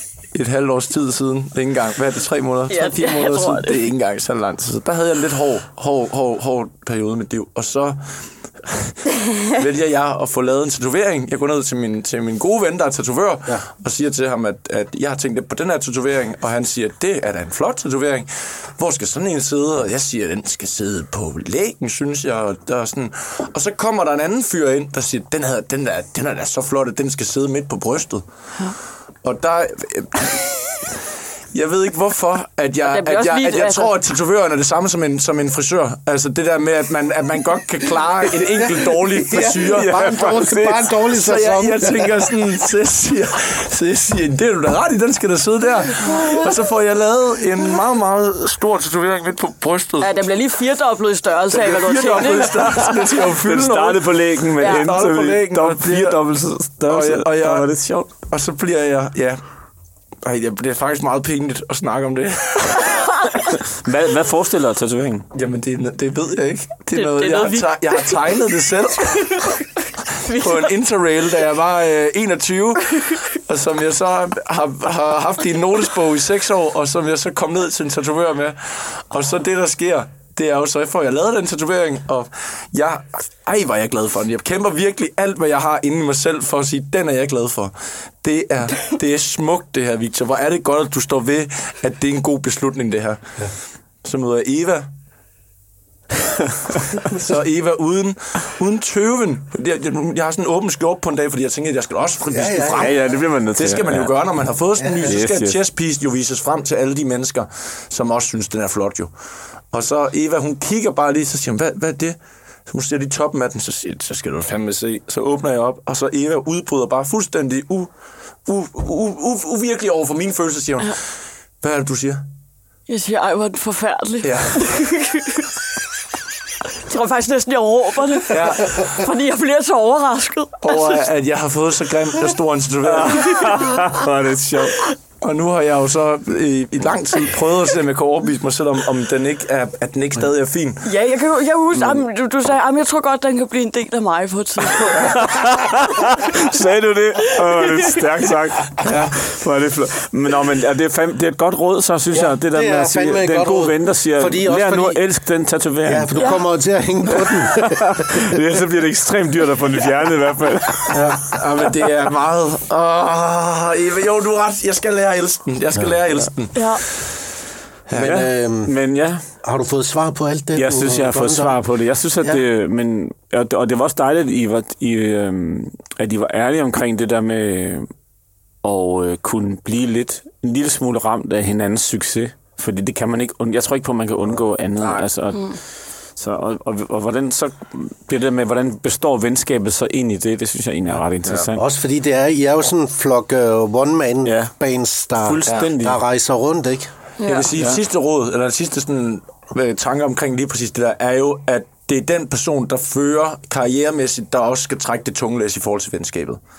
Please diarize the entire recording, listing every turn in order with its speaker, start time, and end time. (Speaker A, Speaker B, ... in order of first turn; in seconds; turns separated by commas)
Speaker A: 0.3-8.0, Speaker B: 2.7-3.8, Speaker A: 8.6-28.2, Speaker A: 29.2-30.9, Speaker A: 31.5-40.1, Speaker B: 32.9-33.9, Speaker C: 38.8-42.2, Speaker D: 39.8-40.9, Speaker A: 41.0-50.2, Speaker B: 46.0-46.5, Speaker B: 50.0-53.2, Speaker A: 51.5-56.2, Speaker D: 53.2-58.1, Speaker B: 54.6-54.9, Speaker A: 56.9-57.7, Speaker A: 58.2-59.4, Speaker A: 60.2-63.1, Speaker B: 62.8-63.4, Speaker D: 63.5-65.3, Speaker A: 65.3-69.5, Speaker B: 66.9-70.7, Speaker A: 70.2-93.2, Speaker A: 94.0-94.9, Speaker A: 96.9-103.0, Speaker C: 102.3-102.9, Speaker D: 102.6-104.1, Speaker A: 103.6-109.1, Speaker D: 105.0-105.6, Speaker A: 109.7-117.9, Speaker A: 118.5-121.0, Speaker A: 121.6-122.2, Speaker B: 122.9-125.5, Speaker A: 124.2-124.6, Speaker B: 126.7-131.1, Speaker A: 128.3-128.8, Speaker A: 130.6-133.6, Speaker D: 132.9-134.9, Speaker B: 133.1-133.9, Speaker A: 135.2-140.9, Speaker B: 140.8-145.5, Speaker D: 144.9-156.1, Speaker B: 146.0-146.4, Speaker B: 147.4-148.0, Speaker A: 148.8-149.2, Speaker C: 152.1-155.0, Speaker C: 155.8-158.2, Speaker B: 156.2-156.4, Speaker D: 157.2-161.2, Speaker A: 160.9-166.8, Speaker B: 166.6-166.8, Speaker A: 167.9-168.2, Speaker C: 167.9-168.7, Speaker D: 167.9-169.2, Speaker C: 169.4-171.6, Speaker D: 170.6-177.9, Speaker D: 178.6-185.6, Speaker D: 186.2-191.6, Speaker C: 191.6-196.9, Speaker D: 194.2-194.5, Speaker D: 195.2-196.0, Speaker A: 195.5-195.7, Speaker B: 197.2-197.5, Speaker A: 197.2-206.4